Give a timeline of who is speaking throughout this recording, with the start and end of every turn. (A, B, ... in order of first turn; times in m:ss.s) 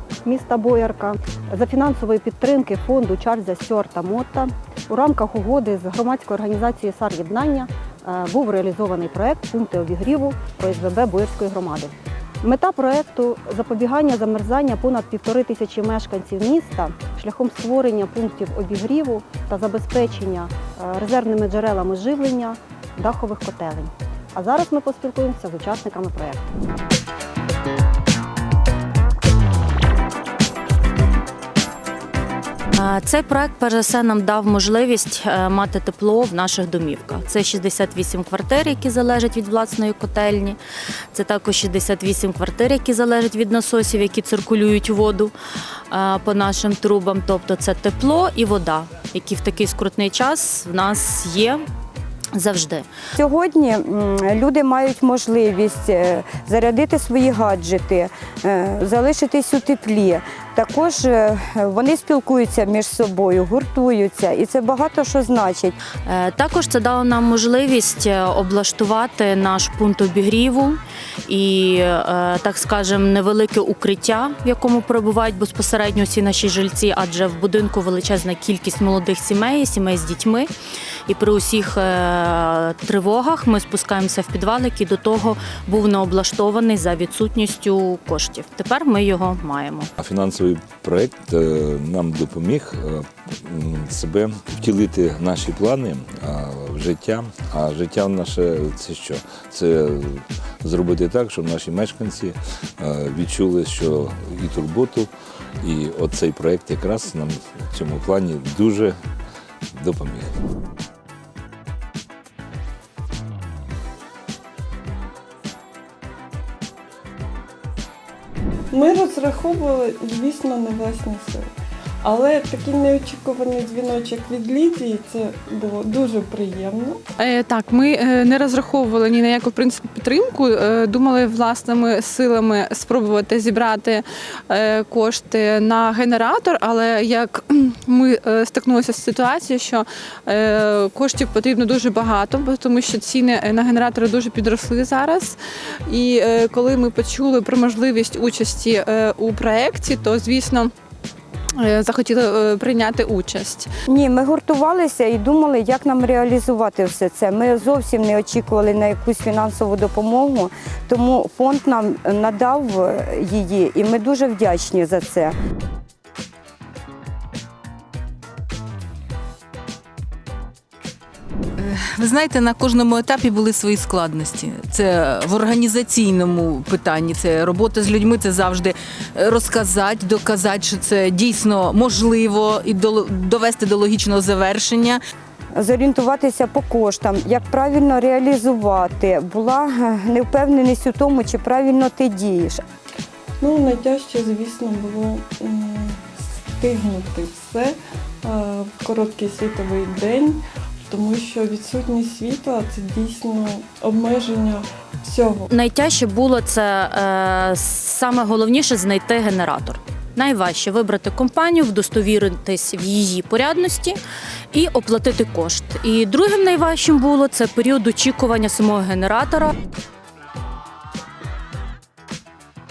0:00.2-0:26.5 A
0:32.7-0:40.6 B
0:41.1-0:45.3 B
0:45.9-0:51.6 B
0:52.3-0:52.9 B
0:53.1-1:05.8 C
1:06.0-1:20.5 B
1:21.1-1:29.9 B
1:30.0-1:45.1 D
1:45.6-1:48.9 D
1:49.8-1:50.3 D
1:58.7-2:01.5 E
2:02.0-2:07.0 E
2:07.2-2:30.7 F
2:31.6-2:33.7 F
2:33.9-2:45.4 C
2:51.6-3:05.0 G
3:05.6-3:12.6 C
3:13.4-3:25.5 E
3:25.5-3:34.0 B
3:34.5-3:39.5 B